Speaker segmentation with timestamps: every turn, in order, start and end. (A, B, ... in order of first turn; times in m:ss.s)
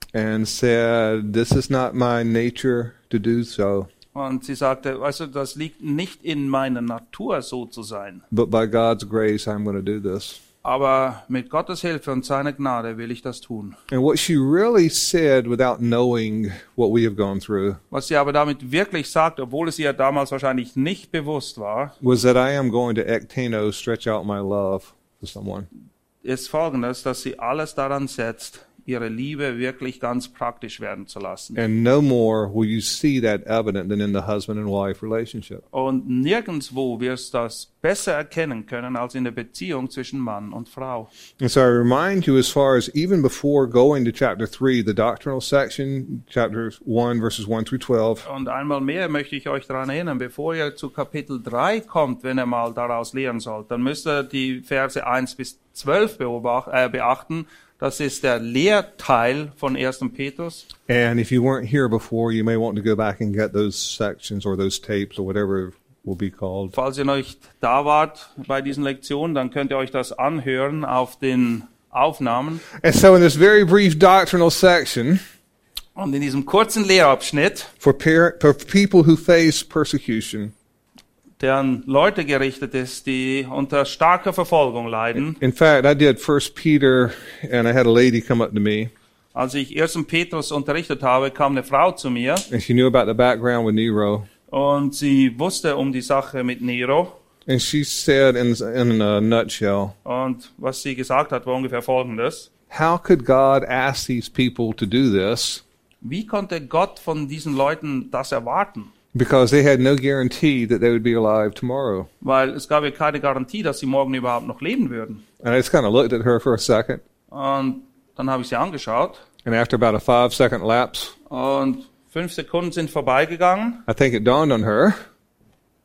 0:00.1-0:03.9 A
0:04.1-0:08.2 B
0:08.3-0:10.4 A
0:10.6-0:13.8 B
0:13.9-0:17.8 A
0:17.9-0:22.0 B
0:22.0-0:25.7 A
0:26.2-0:31.6 B
0:31.6-0:35.6 A
0:35.7-0:41.1 B
0:41.4-0:48.3 A
0:48.2-1:00.7 B
1:00.9-1:06.8 A
1:06.7-1:12.6 B
1:12.8-1:15.2 A
1:16.0-1:17.7 B
1:17.8-1:20.5 A
1:21.4-1:25.4 B
1:25.3-1:28.9 A
1:29.4-1:32.5 B
1:32.5-1:34.3 A
1:34.5-1:37.2 B
1:37.5-1:39.9 A
1:40.0-1:42.5 B
1:42.7-1:45.6 A
1:46.0-1:48.9 B
1:49.1-1:52.1 A
1:52.2-1:55.2 B
1:55.4-1:57.0 A
1:57.3-1:59.2 B
1:59.4-2:01.1 A
2:01.3-2:03.9 B
2:03.9-2:05.0 A